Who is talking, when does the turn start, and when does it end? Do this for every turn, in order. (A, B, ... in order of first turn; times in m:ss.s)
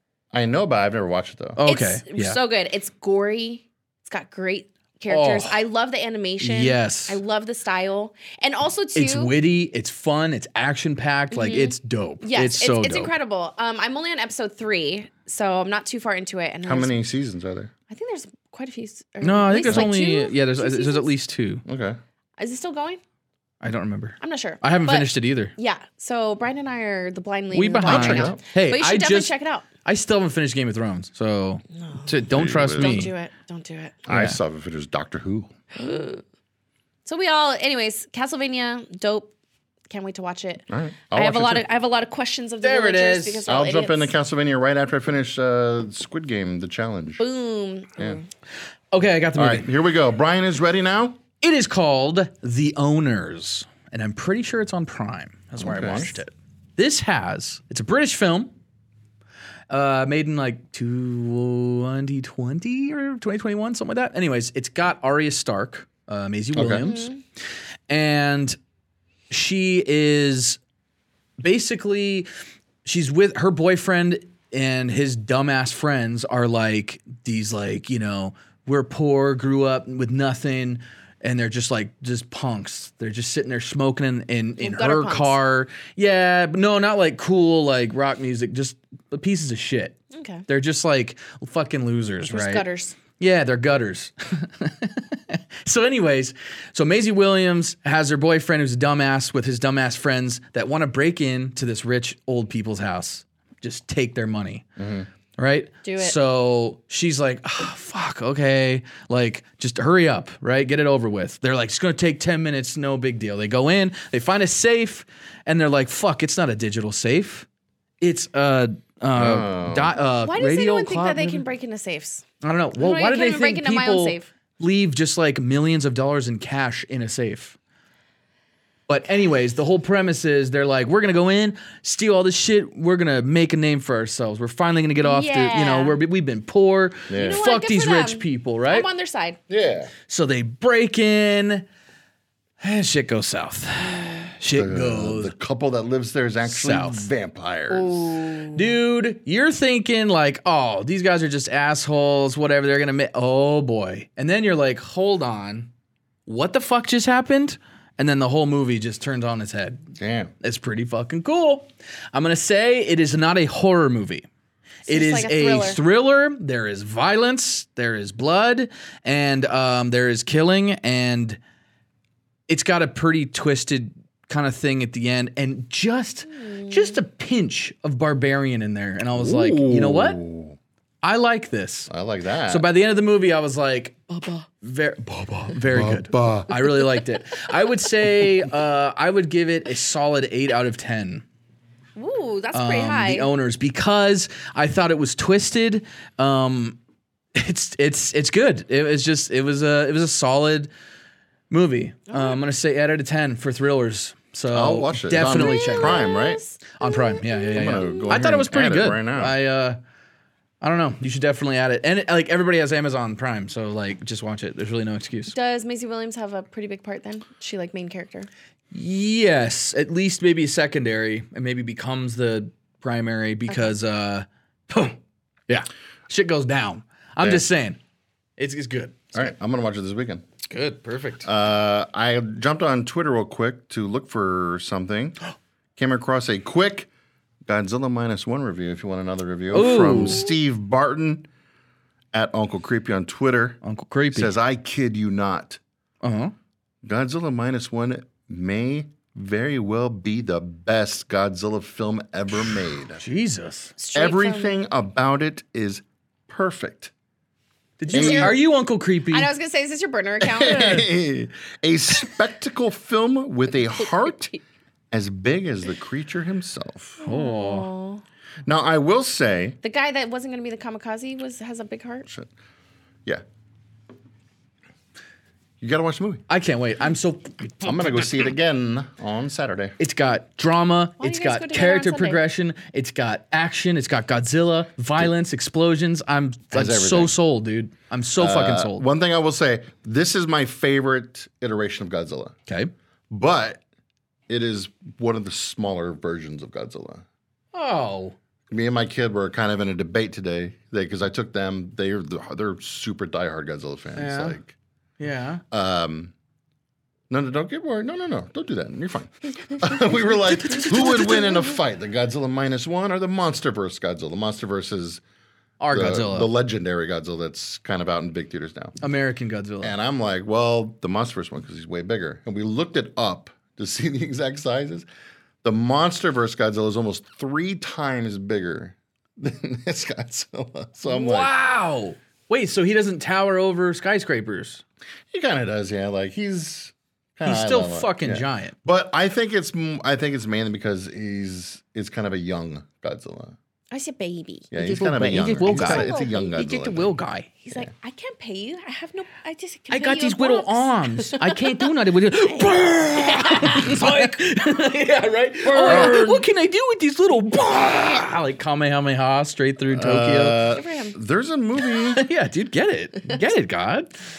0:00.3-0:01.6 A
0:01.6-0:02.4 B
0:01.7-0:09.3 C
0:05.1-0:05.6 B
0:06.4-0:07.2 B
0:09.0-0:13.1 B
0:11.3-0:16.9 C
0:16.7-0:17.7 A
0:17.9-0:21.1 C
0:19.2-0:21.6 B
0:21.7-0:22.0 A
0:22.4-0:23.0 C
0:23.6-0:25.5 B
0:24.2-0:29.7 C
0:27.5-0:33.1 B
0:27.8-0:28.4 A
0:31.8-0:34.0 C
0:32.3-0:33.1 A
0:34.1-0:35.5 A
0:34.1-0:34.4 B
0:35.7-0:36.2 C
0:37.1-0:39.3 C
0:39.9-0:44.1 C
0:40.7-0:41.6 A
0:42.6-0:43.5 B
0:43.5-0:47.2 A
0:47.2-0:48.2 C
0:48.9-0:49.7 B
0:49.4-0:51.2 A
0:51.4-0:58.5 B
0:55.6-0:56.2 A
0:59.7-1:07.1 B
1:06.6-1:06.9 A
1:06.8-1:07.2 C
1:07.9-1:08.6 B
1:09.3-1:10.6 B
1:11.4-1:12.3 B
1:12.8-1:32.6 B
1:24.6-1:25.4 C
1:30.1-1:30.4 C
1:32.3-1:33.0 C
1:33.2-1:44.6 B
1:44.8-1:45.1 A
1:45.4-1:57.5 B
1:45.8-1:46.2 C
1:58.0-2:01.4 B
1:59.2-1:59.9 A
2:00.2-2:02.2 C
2:02.4-2:07.6 B
2:02.8-2:04.3 C
2:08.9-2:18.9 B
2:15.0-2:16.0 C
2:17.1-2:17.4 A
2:17.1-2:19.4 C
2:19.5-2:19.9 A
2:20.1-2:21.7 B
2:22.6-2:25.3 B
2:23.8-2:24.3 C
2:24.5-2:28.2 A
2:26.5-2:27.1 B
2:27.7-2:28.7 C
2:28.4-2:35.7 B
2:36.3-2:39.8 B
2:40.0-2:40.3 A
2:40.4-2:44.3 B
2:44.9-2:45.8 C
2:44.9-2:51.4 B
2:52.5-3:00.2 B
2:56.3-2:57.0 C
2:59.2-3:00.6 A
3:01.0-3:01.9 B
3:01.9-3:02.7 A
3:02.5-3:11.2 B
3:04.2-3:04.4 C
3:05.7-3:06.5 A
3:12.0-3:13.3 C
3:12.5-3:16.8 B
3:17.4-3:20.7 B
3:21.5-3:26.1 B
3:22.1-3:22.4 C
3:24.5-3:26.4 A
3:25.2-3:28.1 C
3:26.8-3:29.8 B
3:27.6-3:29.4 A
3:30.6-3:35.4 B
3:35.3-3:38.3 C
3:38.7-3:47.8 B
3:43.5-3:43.8 C
3:47.2-3:47.4 A
3:48.4-3:49.3 B
3:49.1-3:50.2 A
3:50.5-3:51.3 B
3:51.2-3:55.2 A
3:55.8-3:56.9 A
3:57.5-4:01.3 A
3:59.5-4:00.3 B
4:02.1-4:03.6 A
4:03.6-4:04.3 B
4:04.1-4:05.6 A
4:06.0-4:06.3 B
4:06.8-4:13.0 A
4:13.0-4:13.7 B
4:13.8-4:14.6 C
4:14.0-4:16.9 A
4:17.8-4:19.3 B
4:17.9-4:18.4 C
4:17.9-4:18.4 A
4:19.1-4:20.9 C
4:20.2-4:24.3 A
4:24.0-4:24.4 C
4:24.9-4:27.0 A
4:27.0-4:28.0 C
4:27.0-4:27.7 B
4:28.5-4:29.6 A
4:29.6-4:32.1 C
4:35.6-4:36.2 A
4:36.3-4:38.2 B
4:37.6-4:39.8 A
4:39.8-4:48.8 B
4:41.0-4:42.2 C
4:46.5-4:47.2 A
4:48.2-4:52.4 A
4:53.1-4:53.6 A
4:54.3-4:57.0 A
4:57.5-4:58.2 B
4:58.5-5:04.6 A
5:04.0-5:04.4 B
5:05.0-5:05.4 B
5:05.5-5:06.1 A
5:07.1-5:15.0 A
5:10.6-5:11.2 B
5:15.6-5:16.3 B
5:15.7-5:18.8 A
5:18.8-5:19.8 B
5:19.6-5:24.9 A
5:25.4-5:31.3 A
5:30.9-5:34.6 B
5:35.1-5:43.4 A
5:37.2-5:38.6 B
5:43.7-5:44.5 C
5:44.5-5:46.9 A
5:44.6-5:47.4 B
5:45.4-5:46.4 C
5:47.5-5:51.7 C
5:49.7-6:00.4 B
5:53.0-5:54.0 C
5:55.5-5:56.2 C
5:55.6-5:56.1 A
5:59.7-6:02.0 A
6:00.5-6:01.0 C
6:01.8-6:03.9 B